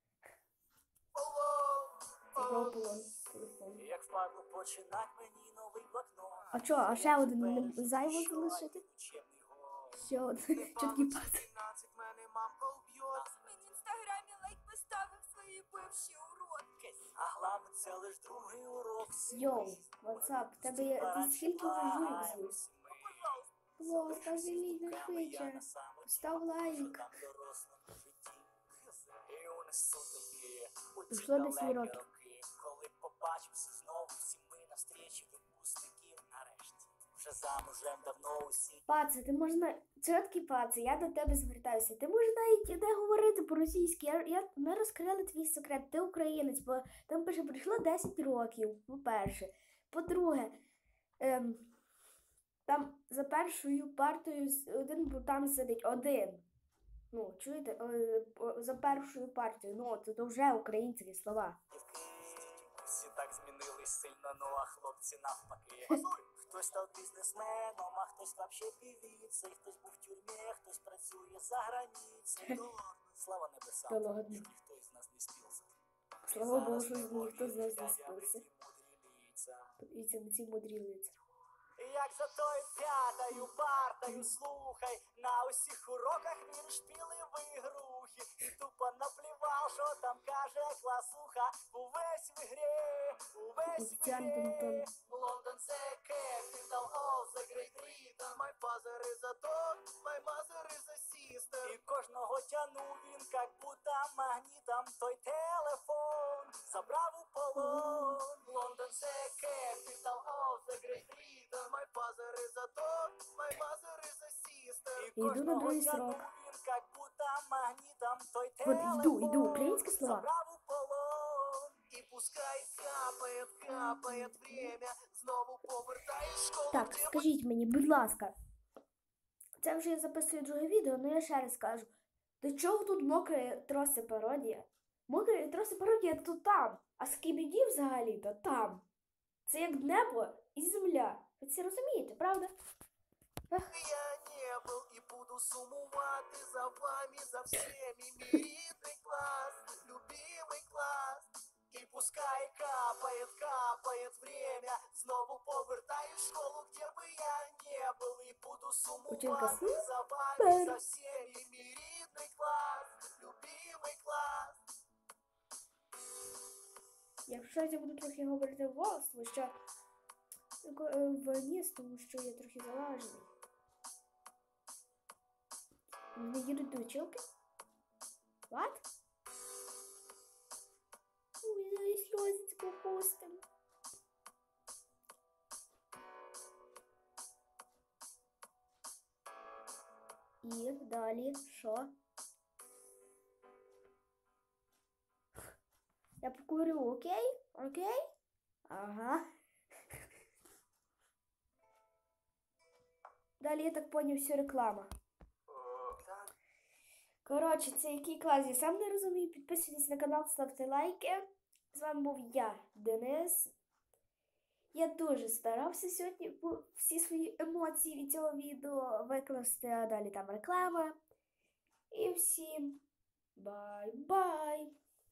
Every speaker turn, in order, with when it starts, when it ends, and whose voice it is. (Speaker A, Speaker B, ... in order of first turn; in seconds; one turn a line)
Speaker A: 1.1-2.8
Speaker B: 2.4-3.8
Speaker C: 3.8-10.1
Speaker B: 6.5-8.8
Speaker B: 9.9-11.4
Speaker A: 10.5-13.4
Speaker D: 13.3-17.1
Speaker C: 17.0-38.9
Speaker B: 19.3-22.6
Speaker A: 22.9-23.3
Speaker B: 23.8-27.1
Speaker B: 31.1-32.0
Speaker B: 38.9-50.6
Speaker B: 51.2-51.7
Speaker B: 52.7-56.5
Speaker B: 57.1-61.6
Speaker C: 61.7-75.7
Speaker A: 65.9-66.2
Speaker B: 73.9-74.5
Speaker C: 76.2-79.7
Speaker B: 76.3-78.5
Speaker B: 79.8-81.2
Speaker C: 81.8-98.2
Speaker B: 93.7-94.9
Speaker A: 98.1-101.8
Speaker C: 101.6-111.4
Speaker B: 107.7-108.1
Speaker A: 108.8-110.6
Speaker A: 111.3-115.1
Speaker C: 115.0-121.7
Speaker B: 115.2-116.2
Speaker B: 118.6-120.3
Speaker A: 121.9-127.3
Speaker B: 123.7-124.3
Speaker B: 126.7-128.3
Speaker B: 129.6-138.8
Speaker B: 139.4-142.5
Speaker A: 143.6-164.6
Speaker B: 159.1-159.8
Speaker B: 160.4-160.8
Speaker B: 167.3-169.6
Speaker B: 170.6-173.3
Speaker B: 176.1-177.2
Speaker B: 178.5-178.8
Speaker B: 181.4-183.4
Speaker B: 190.4-191.9
Speaker B: 196.2-198.0
Speaker B: 198.7-199.2
Speaker B: 203.4-204.9
Speaker A: 205.6-206.3
Speaker B: 207.2-213.5
Speaker B: 214.7-221.0
Speaker B: 221.9-222.8
Speaker B: 223.3-224.8